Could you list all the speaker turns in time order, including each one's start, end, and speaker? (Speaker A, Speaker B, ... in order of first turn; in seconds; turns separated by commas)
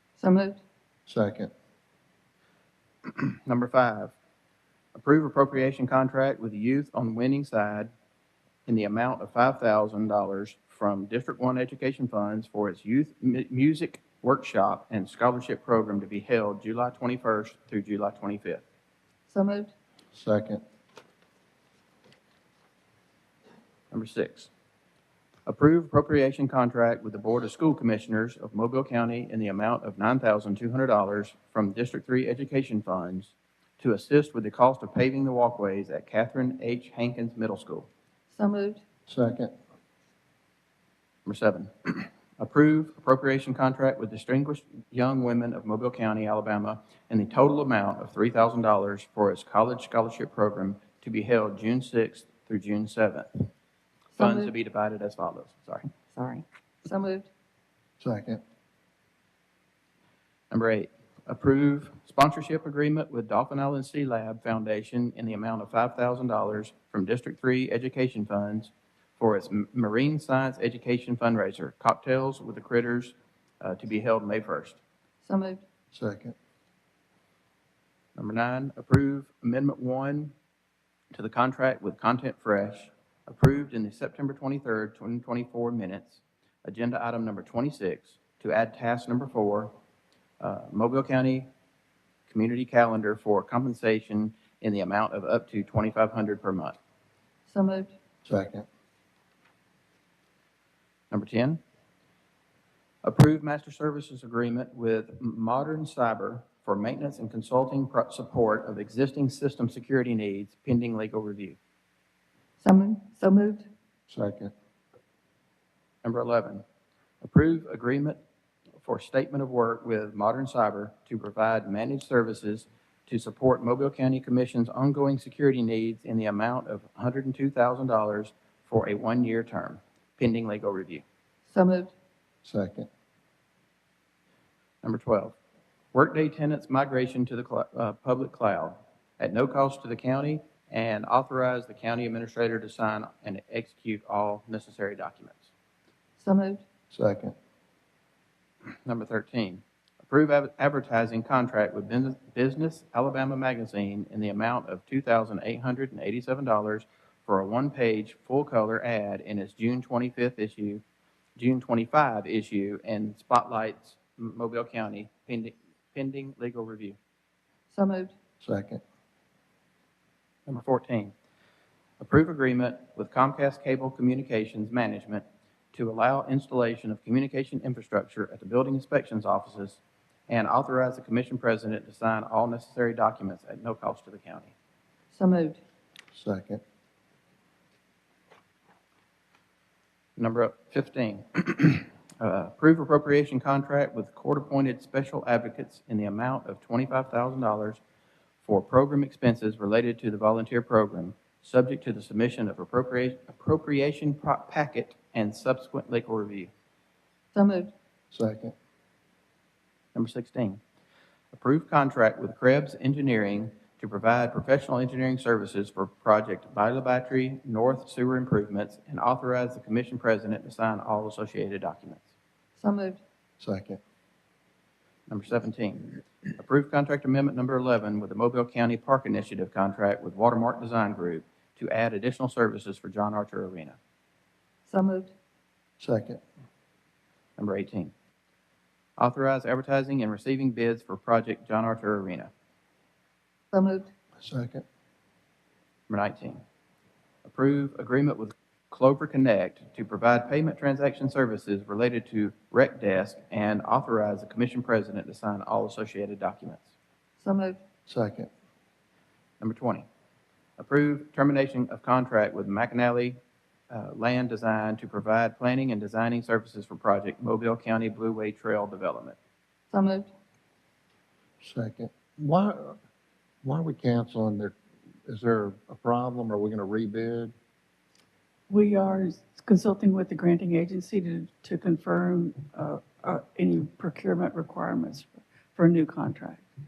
Speaker A: 0.2-0.6, Speaker B: 1.1-1.5, Speaker C: 3.1-4.1, Speaker C: 5.0-7.9, Speaker C: 8.7-18.6, Speaker A: 19.3-19.7, Speaker B: 20.1-20.6, Speaker C: 23.9-24.5, Speaker C: 25.5-37.9, Speaker A: 38.3-38.8, Speaker B: 39.1-39.5, Speaker C: 41.3-53.3, Speaker A: 54.1-54.5, Speaker C: 54.2-55.9, Speaker A: 56.1-57.3, Speaker B: 58.0-58.4, Speaker C: 60.5-74.8, Speaker A: 75.2-75.6, Speaker B: 75.9-76.3, Speaker C: 78.2-80.3, Speaker C: 81.1-89.7, Speaker C: 90.4-91.5, Speaker C: 92.3-96.8, Speaker A: 97.5-98.0, Speaker B: 98.2-98.6, Speaker C: 101.1-101.6, Speaker C: 103.0-111.6, Speaker A: 112.6-113.7, Speaker B: 114.1-114.5, Speaker C: 116.0-116.6, Speaker C: 117.2-118.2, Speaker C: 118.8-131.0, Speaker A: 131.5-131.9, Speaker B: 132.4-132.9, Speaker C: 134.8-135.4, Speaker C: 135.9-145.5, Speaker A: 146.2-146.6, Speaker B: 146.9-147.3, Speaker C: 148.8-160.8, Speaker C: 161.4-167.0, Speaker A: 167.7-168.1, Speaker B: 168.4-168.8, Speaker C: 170.5-171.1, Speaker C: 172.0-184.5, Speaker A: 185.1-185.6, Speaker B: 186.1-186.6, Speaker C: 190.2-197.8, Speaker C: 198.4-206.5, Speaker A: 207.3-207.7, Speaker B: 208.1-208.5, Speaker C: 209.9-210.6, Speaker C: 211.3-222.1, Speaker A: 222.6-223.0, Speaker B: 223.4-223.8, Speaker C: 225.1-233.8, Speaker A: 234.7-235.1, Speaker B: 235.8-236.2, Speaker C: 237.4-237.9, Speaker C: 239.0-242.3, Speaker A: 243.5-243.9, Speaker B: 244.2-244.6, Speaker C: 245.9-246.4, Speaker C: 247.2-256.7, Speaker A: 257.2-257.6, Speaker B: 257.9-258.3, Speaker C: 259.4-259.9, Speaker C: 260.6-263.2, Speaker C: 263.7-269.2, Speaker A: 269.7-270.1, Speaker B: 271.4-272.8, Speaker B: 273.4-274.6, Speaker B: 275.1-277.3, Speaker D: 278.5-286.4